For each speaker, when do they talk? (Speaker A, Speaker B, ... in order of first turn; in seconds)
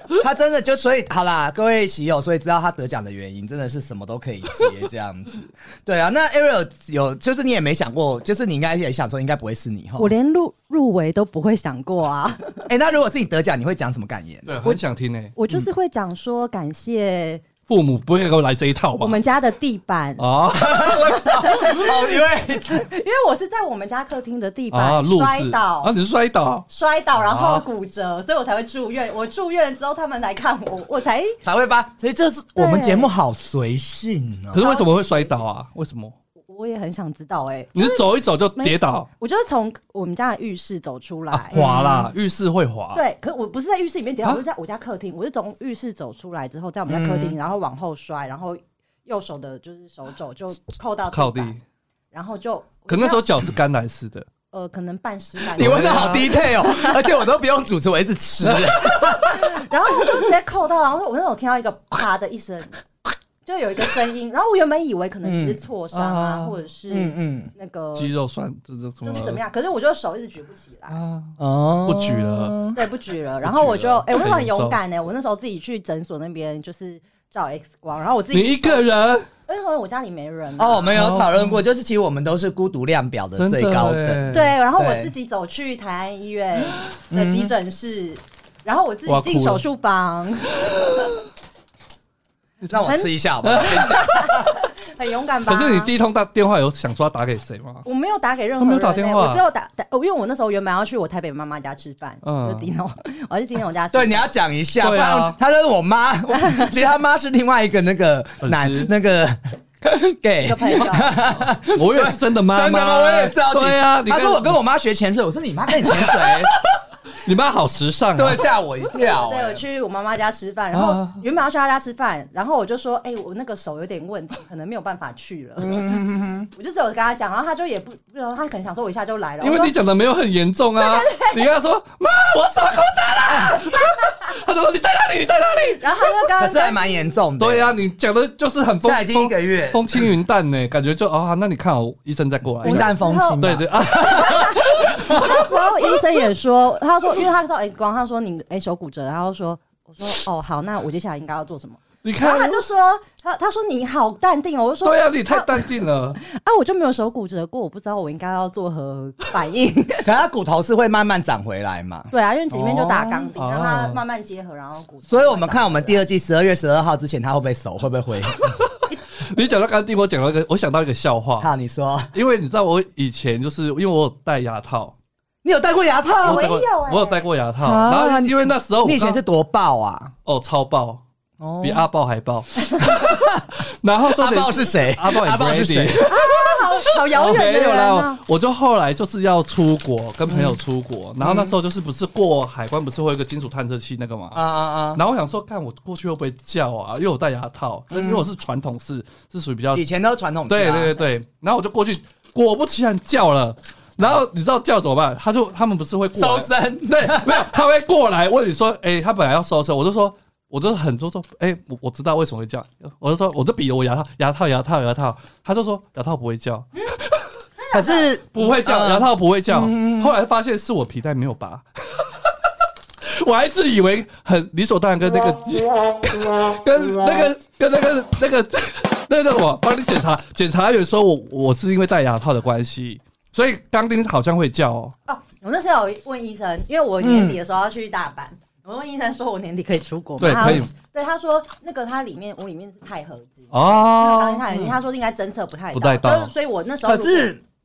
Speaker A: 0.2-10.1, 12.7-14.7, 20.5-22.9, 31.4-34.6, 46.9-47.4, 55.5-59.6, 65.2-65.6, 66.9-67.5, 71.4-72.8, 80.6-85.1, 87.1-87.5, 92.7-94.6, 103.9-116.5, 118.2-119.6, 125.6-126.5, 136.4-137.8, 138.8-140.1, 142.6-143.8, 145.1-145.4, 160.0-162.1, 165.1-168.6, 171.4-172.1, 175.4-176.7, 177.6-180.1, 181.4-181.8, 182.8-183.5, 184.2-186.1, 190.3-190.6, 191.2-191.6, 194.3-195.0, 197.9-198.3, 199.7-201.0, 206.2-207.5, 217.7-220.1, 237.0-237.4, 244.5-244.8, 246.8-247.4
Speaker B: 10.0-12.7, 15.4-17.5, 19.0-20.2, 21.2-25.9, 26.7-31.4, 32.6-33.1, 34.5-35.4, 36.5-42.1, 43.0-51.5, 52.1-53.3, 54.5-57.1, 59.2-62.8, 63.5-68.1, 69.0-71.0, 72.7-78.8, 79.5-80.9, 84.3-90.7, 92.8-95.9, 97.8-104.3, 110.4-111.2, 119.0-126.0, 126.6-129.7, 130.8-131.4, 135.8-136.9, 142.6-143.4, 144.0-160.1, 162.1-166.0, 176.2-177.3, 186.1-188.2, 217.6-218.1, 235.1-247.3
Speaker C: 14.5-15.6, 17.7-19.2, 20.2-21.0, 24.7-26.7, 27.2-27.6, 34.5-36.2, 37.8-39.1, 41.3-43.0, 51.1-51.6, 52.9-54.3, 55.6-56.3, 66.0-66.5, 68.0-69.4, 70.9-72.6, 73.4-74.8, 78.3-79.3, 80.9-81.6, 83.4-84.6, 89.1-89.6, 90.6-91.1, 92.6-92.9, 93.4-94.0, 95.5-97.9, 98.6-99.4, 102.2-102.7, 104.8-105.4, 108.4-108.9, 111.7-114.6, 115.9-118.4, 120.7-121.2, 129.4-135.8, 137.4-145.4, 152.0-152.6, 154.8-156.2, 162.5-164.0, 169.2-171.5, 172.1-175.0, 176.2-179.2, 180.3-181.0, 181.6-186.6, 187.1-199.9, 200.5-217.3, 218.3-222.1, 223.0-234.9, 240.2-240.7, 243.5-244.4, 245.7-246.3